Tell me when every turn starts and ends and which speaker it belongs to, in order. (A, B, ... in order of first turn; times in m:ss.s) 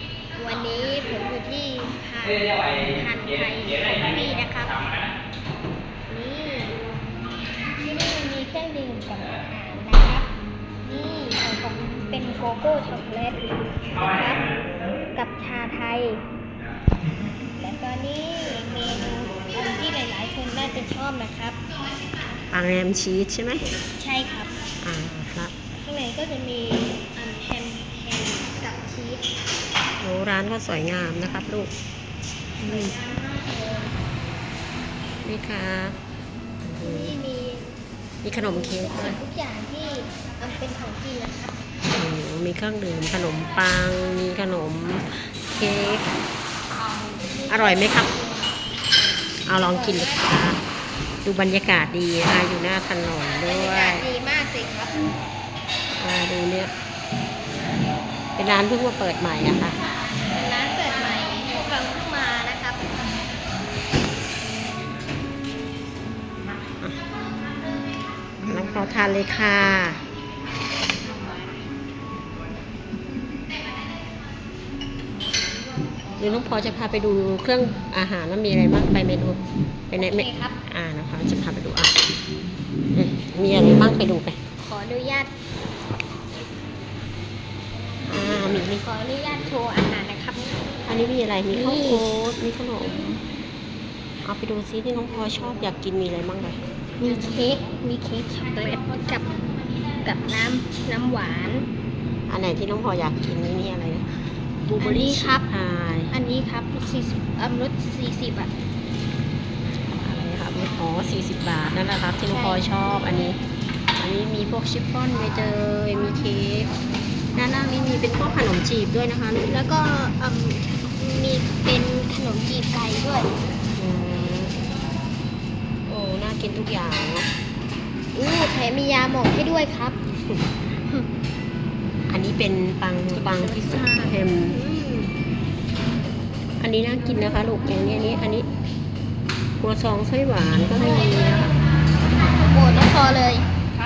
0:00.4-0:04.8 A
0:06.1-0:06.8 A
0:07.8-0:10.3 A
0:10.8-0:14.5 A
0:15.2-0:16.2 A
0:17.6-0:21.6 A
0:22.5-0:23.6 B
0:24.0-0:24.5 A
0:24.8-0:25.5 B
0:25.8-0:29.2 A
0:30.0-0:31.7 B
0:32.6-0:32.9 B
0:32.6-0:33.9 A
0:35.2-0:36.0 B
0:36.6-0:37.2 B
0:36.8-0:37.7 A
0:38.2-0:39.2 B
0:38.3-0:41.6 A
0:41.9-0:46.1 B
0:46.9-0:48.5 A
0:47.5-0:48.1 B
0:49.5-0:50.6 B
0:49.7-0:50.3 A
0:51.2-0:54.1 B
0:53.4-0:55.0 A
0:55.9-0:56.7 B
0:58.4-0:59.8 B
1:00.3-1:02.8 A
1:08.4-1:10.0 B
1:16.2-1:22.0 B
1:20.0-1:20.6 A
1:22.9-1:24.4 B
1:24.6-1:25.3 A
1:28.1-1:28.8 B
1:28.8-1:30.5 A
1:30.9-1:33.2 B
1:31.5-1:32.0 A
1:34.2-1:36.6 B
1:37.0-1:39.3 A
1:40.0-1:41.7 A
1:42.3-1:44.1 B
1:44.6-1:46.1 B
1:44.8-1:45.4 A
1:46.1-1:48.5 A
1:49.7-1:53.4 B
1:52.3-1:52.7 A
1:54.0-1:56.7 B
1:57.4-1:59.5 B
1:59.5-2:03.3 A
2:03.8-2:04.6 B
2:05.9-2:07.3 B
2:08.1-2:10.0 A
2:12.1-2:14.6 B
2:13.2-2:15.1 A
2:16.6-2:18.5 B
2:19.6-2:21.5 B
2:20.8-2:21.5 A
2:22.1-2:23.5 A